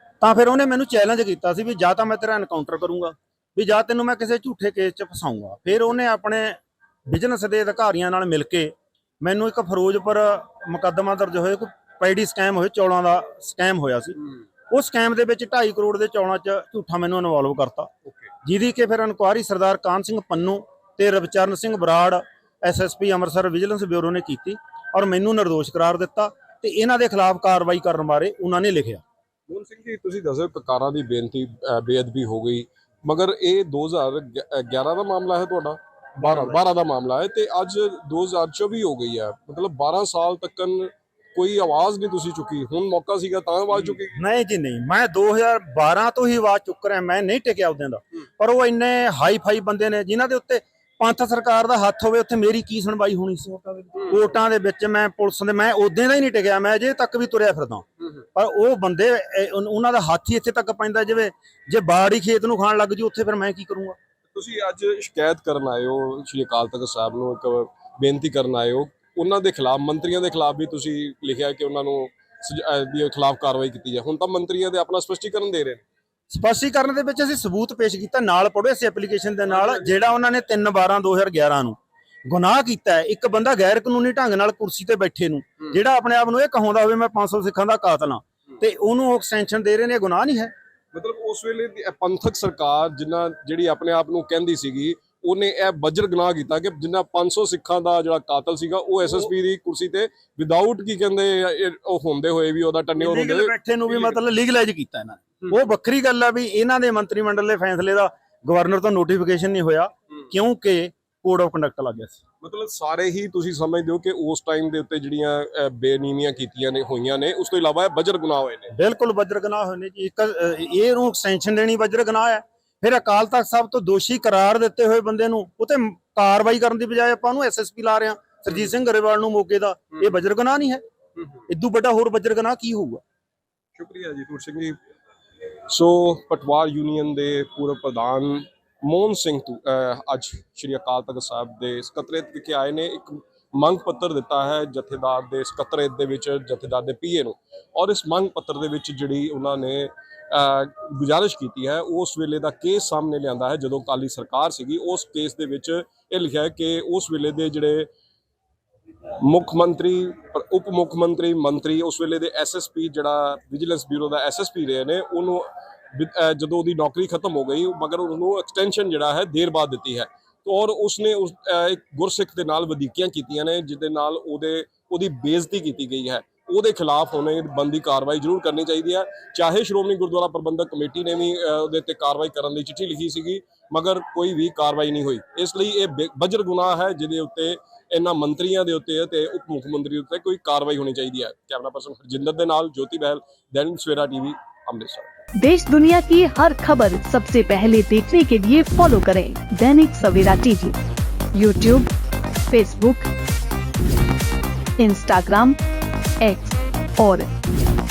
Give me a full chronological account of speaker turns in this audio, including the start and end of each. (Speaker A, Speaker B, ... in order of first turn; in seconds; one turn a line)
Speaker A: 0.2-17.9
Speaker A: 18.4-29.0
Speaker B: 29.5-44.2
Speaker A: 36.2-36.5
Speaker A: 44.0-64.0
Speaker B: 64.3-75.8
Speaker A: 76.3-90.5
Speaker B: 79.5-79.8
Speaker B: 90.9-104.2
Speaker A: 103.0-112.2
Speaker B: 112.4-118.7
Speaker A: 118.7-130.8
Speaker A: 131.5-133.0
Speaker B: 133.8-134.8
Speaker B: 135.7-157.9
Speaker B: 159.2-195.1
Speaker C: 195.4-200.8
Speaker C: 201.3-201.9
Speaker C: 202.5-203.1
Speaker C: 204.8-205.6
Speaker C: 206.2-207.3